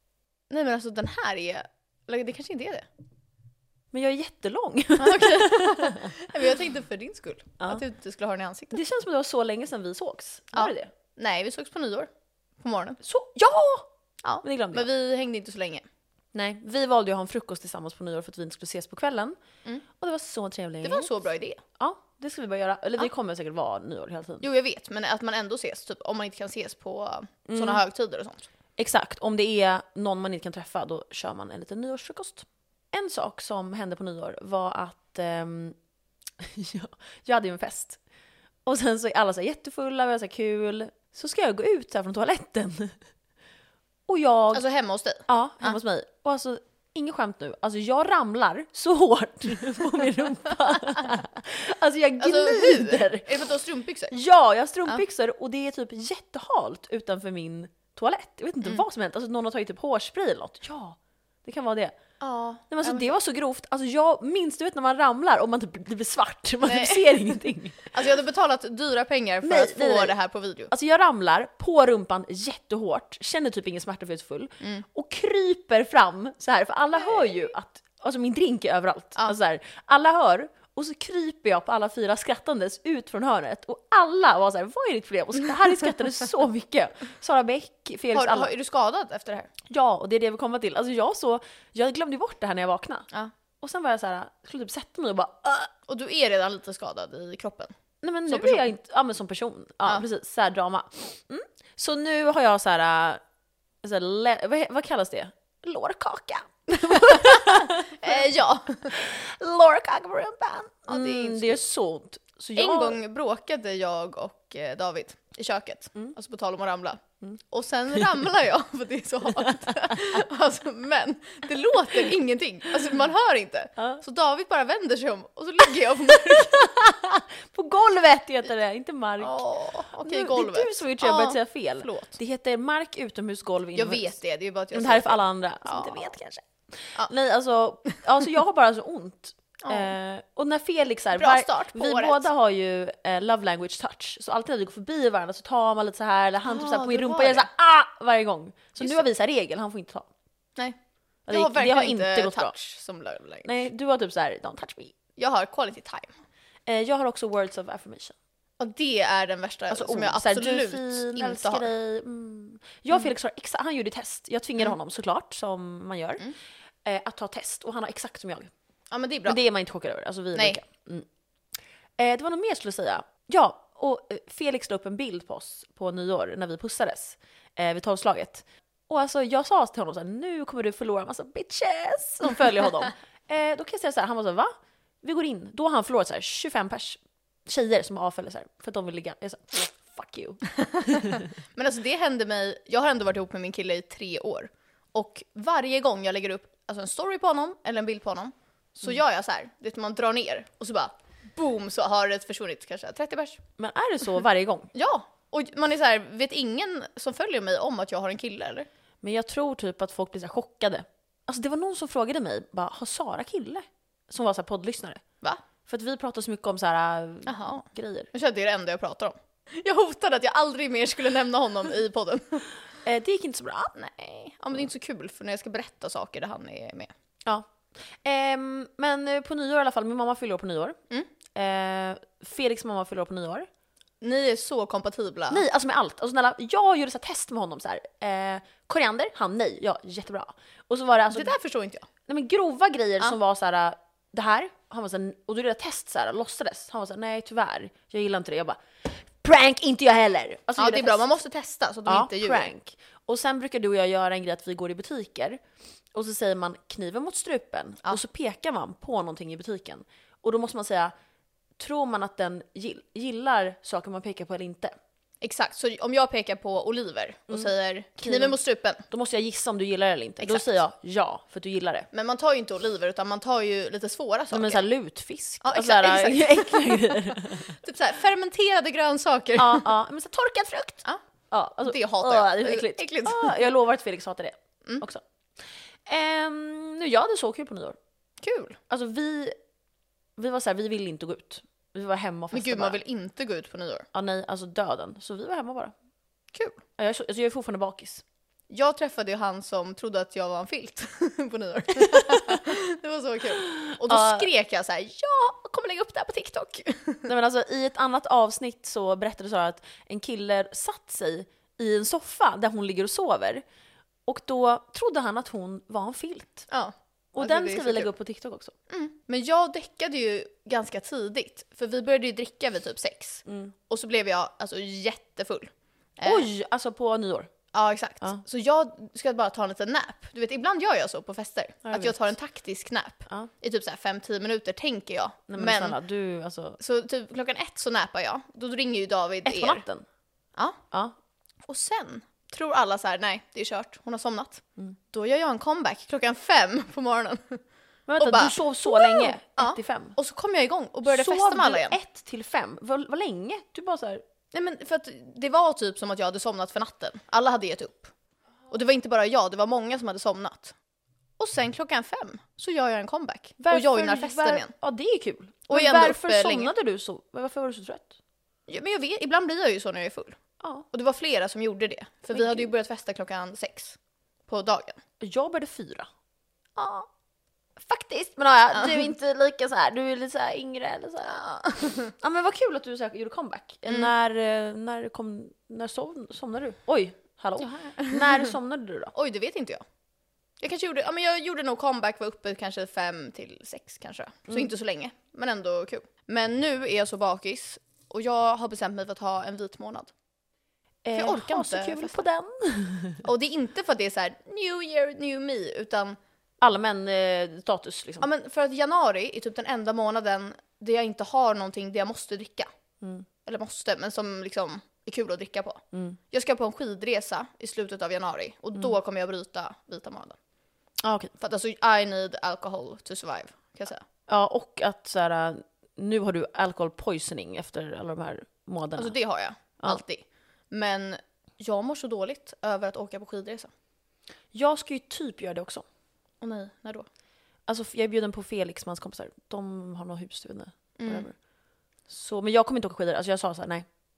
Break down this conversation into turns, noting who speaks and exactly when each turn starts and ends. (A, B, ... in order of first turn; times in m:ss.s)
0:00.5-0:02.9 A
0:03.9-0:06.3 B
0:05.0-0:08.8 A
0:08.7-0:10.9 B
0:10.5-0:13.0 A
0:13.0-0:13.9 B
0:14.2-0:15.9 A
0:14.4-0:14.9 B
0:16.3-0:19.4 B
0:20.0-0:21.1 B
0:20.8-0:21.6 A
0:21.8-0:24.4 B
0:24.4-0:28.5 A
0:27.5-0:27.8 B
0:28.8-0:35.8 B
0:36.4-0:38.0 B
0:38.6-0:43.0 B
0:44.1-0:44.6 B
0:44.5-0:45.8 A
0:45.3-0:53.4 B
0:52.2-0:54.1 A
0:54.1-1:02.0 B
1:02.2-1:03.1 A
1:02.7-1:07.9 B
1:06.6-1:10.7 A
1:09.4-1:10.1 B
1:10.7-1:28.5 B
1:14.6-1:14.8 A
1:16.9-1:17.3 A
1:28.1-1:29.5 A
1:29.7-1:33.1 B
1:33.6-1:35.7 B
1:35.9-1:37.7 A
1:38.0-1:43.2 B
1:38.3-1:38.7 A
1:43.8-1:48.2 B
1:46.9-1:49.0 A
1:48.9-1:53.0 B
1:50.9-1:51.6 A
1:52.6-2:06.7 A
1:59.4-2:00.2 B
2:06.1-2:14.1 B
2:09.2-2:12.2 A
2:13.8-2:16.1 A
2:14.7-2:30.1 B
2:19.6-2:19.9 A
2:21.2-2:22.3 A
2:26.4-2:27.5 A
2:31.3-2:32.5 B
2:31.3-2:33.5 A
2:33.4-2:34.9 B
2:35.2-2:36.1 A
2:36.7-2:38.2 B
2:38.6-2:41.7 A
2:39.7-2:46.3 B
2:46.8-2:48.5 B
2:48.9-2:49.4 A
2:49.3-2:51.1 B
2:52.0-3:11.3 B
3:10.9-3:23.4 A
3:23.6-3:24.7 B
3:24.7-3:28.7 A
3:29.0-3:35.0 B
3:35.6-3:38.1 B
3:37.3-3:42.5 A
3:42.8-3:43.7 B
3:43.8-3:46.9 A
3:47.3-3:50.8 B
3:51.3-3:53.5 B
3:54.0-3:55.4 A
3:55.3-4:01.3 B
4:01.1-4:01.9 A
4:02.1-4:11.1 B
4:10.6-4:12.5 A
4:11.9-4:15.4 B
4:15.9-4:20.9 B
4:21.6-4:24.8 B
4:25.2-4:28.8 A
4:28.0-4:28.4 B
4:28.9-4:31.9 B
4:30.2-4:30.5 A
4:31.9-4:34.6 A
4:34.3-4:37.5 B
4:35.4-4:39.6 A
4:39.4-4:45.0 B
4:41.6-4:43.4 A
4:45.9-4:47.8 B
4:48.2-4:48.6 A
4:48.7-4:49.4 B
4:50.2-4:52.8 B
4:52.3-4:53.9 A
4:53.9-4:55.7 B
4:56.3-4:56.6 A
4:56.8-4:58.0 B
4:58.5-5:07.1 A
5:03.4-5:04.3 B
5:07.1-5:13.4 B
5:14.1-5:16.5 B
5:16.5-5:17.9 A
5:17.1-5:18.5 B
5:18.7-5:26.3 A
5:23.3-5:23.5 B
5:26.0-5:27.3 B
5:27.5-5:35.8 A
5:31.6-5:32.1 B
5:35.3-5:36.6 B
5:36.6-5:39.6 A
5:39.2-5:39.8 B
5:41.5-5:47.4 A
5:47.9-5:50.0 B
5:48.0-5:51.8 A
5:50.9-5:54.0 B
5:54.3-5:57.9 A
5:58.5-6:00.6 A
6:01.2-6:04.5 A
6:03.4-6:08.0 B
6:05.5-6:06.5 A
6:08.5-6:10.2 A
6:10.4-6:10.7 B
6:10.7-6:14.8 A
6:12.1-6:12.5 B
6:15.0-6:15.9 B
6:16.6-6:16.9 A
6:17.6-6:28.9 B
6:18.5-6:18.9 A
6:21.1-6:21.9 A
6:27.4-6:28.3 A
6:28.9-6:29.6 A
6:30.4-6:39.9 A
6:40.8-6:43.0 B
6:41.0-6:42.0 A
6:43.0-6:46.0 A
6:46.4-6:48.1 B
6:48.0-6:52.5 A
6:52.8-6:53.1 B
6:53.2-7:00.2 A
6:55.7-6:56.0 B
7:00.8-7:01.1 B
7:01.2-7:03.8 A
7:04.1-7:09.0 B
7:08.8-7:13.5 A
7:14.3-7:15.6 B
7:16.2-7:16.9 A
7:17.5-7:21.2 B
7:20.8-7:21.1 A
7:21.9-7:23.7 B